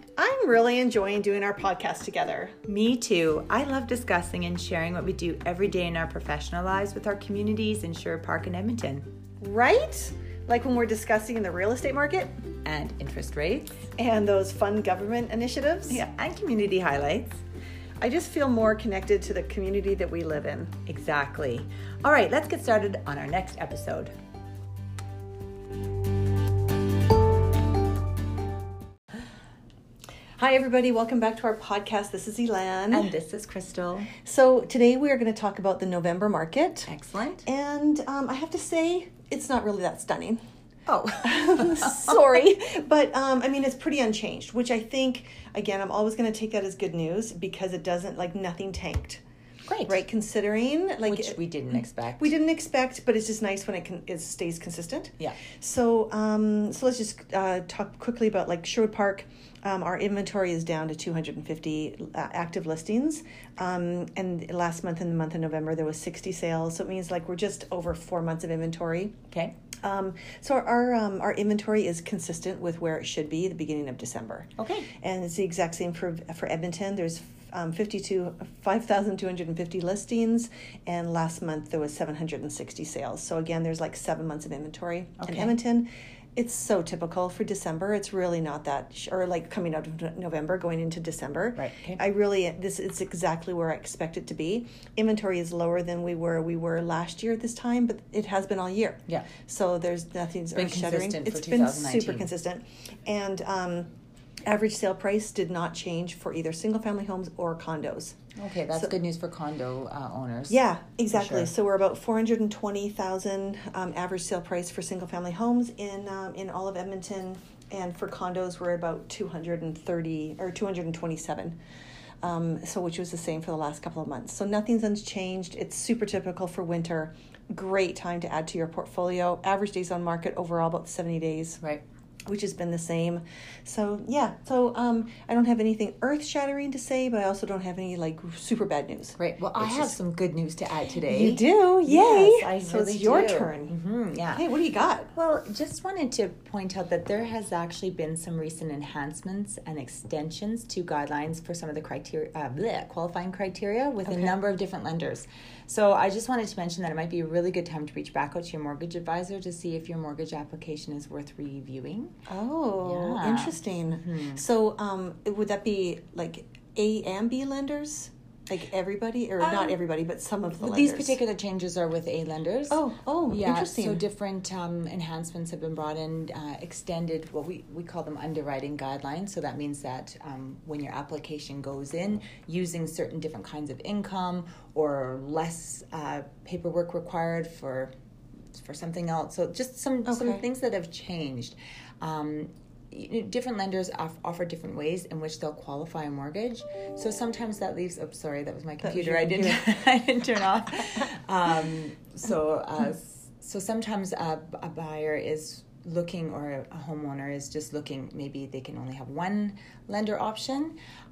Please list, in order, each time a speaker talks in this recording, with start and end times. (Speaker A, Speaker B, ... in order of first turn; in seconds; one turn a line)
Speaker A: 0.2-2.5
Speaker B: 2.7-9.1
Speaker A: 9.4-12.3
Speaker B: 12.7-13.8
Speaker A: 14.0-16.0
Speaker B: 15.9-17.4
Speaker A: 18.0-20.8
Speaker B: 20.9-24.1
Speaker A: 30.4-33.1
Speaker B: 32.9-34.1
Speaker A: 34.2-36.9
Speaker B: 36.9-37.5
Speaker A: 37.5-40.4
Speaker B: 40.9-42.4
Speaker A: 41.2-49.2
Speaker B: 49.7-50.0
Speaker A: 49.9-69.2
Speaker B: 51.1-52.3
Speaker A: 69.8-103.9
Speaker B: 74.6-74.9
Speaker B: 85.2-85.5
Speaker B: 91.5-92.0
Speaker B: 100.5-102.3
Speaker A: 104.5-108.2
Speaker B: 108.4-110.6
Speaker A: 110.5-121.6
Speaker B: 111.1-111.5
Speaker A: 122.2-131.6
Speaker A: 132.3-139.9
Speaker B: 139.2-144.4
Speaker A: 141.1-143.7
Speaker A: 144.3-145.1
Speaker B: 145.1-162.2
Speaker A: 154.1-154.4
Speaker A: 162.3-171.2
Speaker B: 162.8-164.4
Speaker B: 169.4-169.8
Speaker B: 170.6-187.9
Speaker A: 172.7-174.1
Speaker B: 188.6-210.8
Speaker A: 190.1-190.4
Speaker A: 198.8-199.6